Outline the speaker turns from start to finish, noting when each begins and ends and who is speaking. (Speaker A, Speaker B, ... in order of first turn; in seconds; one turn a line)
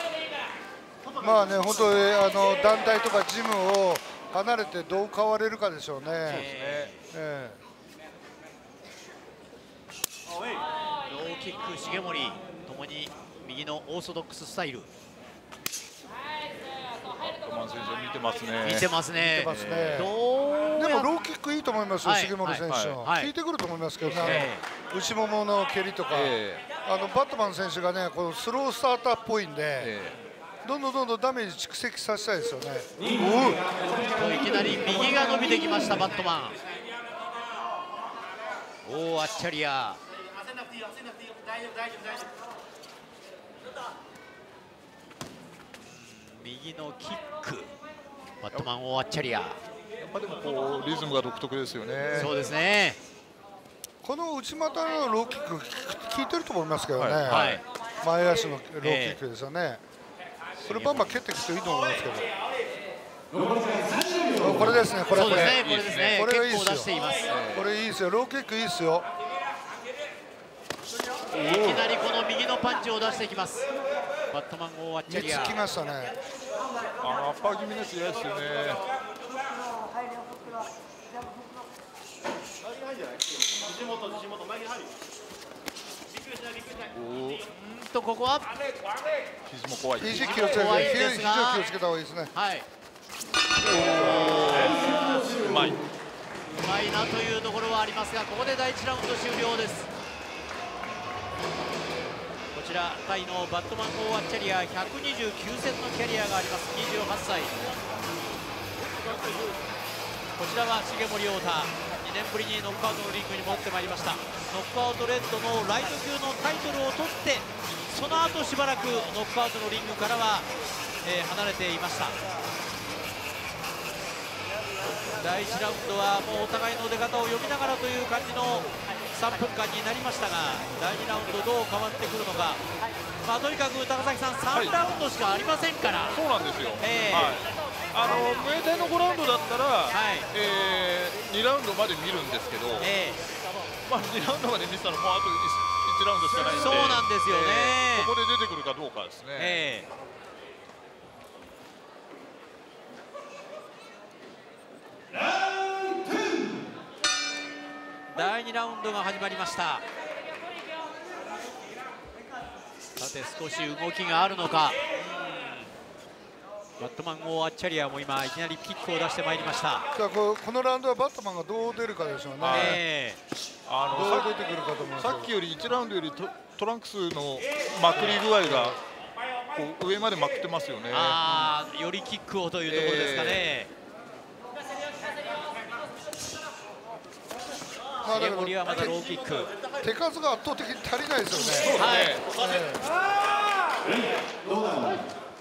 Speaker A: 1.2-6.5
Speaker B: 6.3-6.9
Speaker C: 6.3-7.1
Speaker A: 7.1-7.6
Speaker C: 11.0-14.9
Speaker B: 17.2-18.9
Speaker C: 18.6-21.1
Speaker A: 19.2-20.1
Speaker B: 19.4-20.1
Speaker A: 20.8-29.9
Speaker C: 22.0-23.3
Speaker B: 22.7-23.0
Speaker B: 24.1-24.5
Speaker C: 24.1-24.6
Speaker B: 26.1-26.7
Speaker B: 29.8-30.2
Speaker A: 30.6-33.6
Speaker C: 34.1-36.6
Speaker C: 38.8-40.0
Speaker C: 45.9-47.7
Speaker C: 48.4-49.6
Speaker B: 50.0-52.5
Speaker C: 52.1-53.0
Speaker A: 54.0-59.8
Speaker B: 57.0-57.6
Speaker C: 57.3-57.6
Speaker C: 58.8-59.2
Speaker B: 60.6-61.1
Speaker A: 60.7-62.3
Speaker A: 64.4-65.6
Speaker C: 65.1-67.3
Speaker B: 65.2-66.2
Speaker A: 66.1-67.0
Speaker B: 67.2-67.7
Speaker A: 67.5-69.1
Speaker B: 71.3-71.8
Speaker C: 71.5-73.7
Speaker C: 74.3-75.6
Speaker A: 75.1-76.1
Speaker B: 77.0-78.8
Speaker B: 86.9-87.4
Speaker C: 87.5-88.5
Speaker B: 89.5-90.7
Speaker A: 90.0-92.3
Speaker C: 90.3-91.7
Speaker C: 92.3-92.7
Speaker B: 93.6-95.8
Speaker C: 93.8-95.2
Speaker C: 96.6-99.9
Speaker C: 102.5-107.7
Speaker C: 110.4-120.5
Speaker C: 121.0-122.2
Speaker C: 125.2-132.6
Speaker C: 133.2-136.2
Speaker B: 134.5-134.8
Speaker B: 136.1-142.9
Speaker C: 136.8-137.4
Speaker C: 139.9-140.3
Speaker C: 142.8-143.2
Speaker B: 143.9-149.7
Speaker C: 146.4-148.1
Speaker C: 149.3-149.9
Speaker C: 158.1-159.8
Speaker C: 163.0-165.7
Speaker C: 166.8-169.8
Speaker A: 169.9-172.8
Speaker B: 172.4-172.8
Speaker C: 172.5-173.2
Speaker B: 173.7-174.3
Speaker A: 173.9-175.3
Speaker B: 175.0-178.8
Speaker A: 177.9-178.8
Speaker B: 179.5-181.2
Speaker C: 180.9-183.7
Speaker A: 181.2-181.5
Speaker B: 182.7-183.4
Speaker A: 188.0-189.0
Speaker C: 188.1-189.5
Speaker A: 189.8-192.8
Speaker B: 191.6-192.3
Speaker C: 191.8-192.2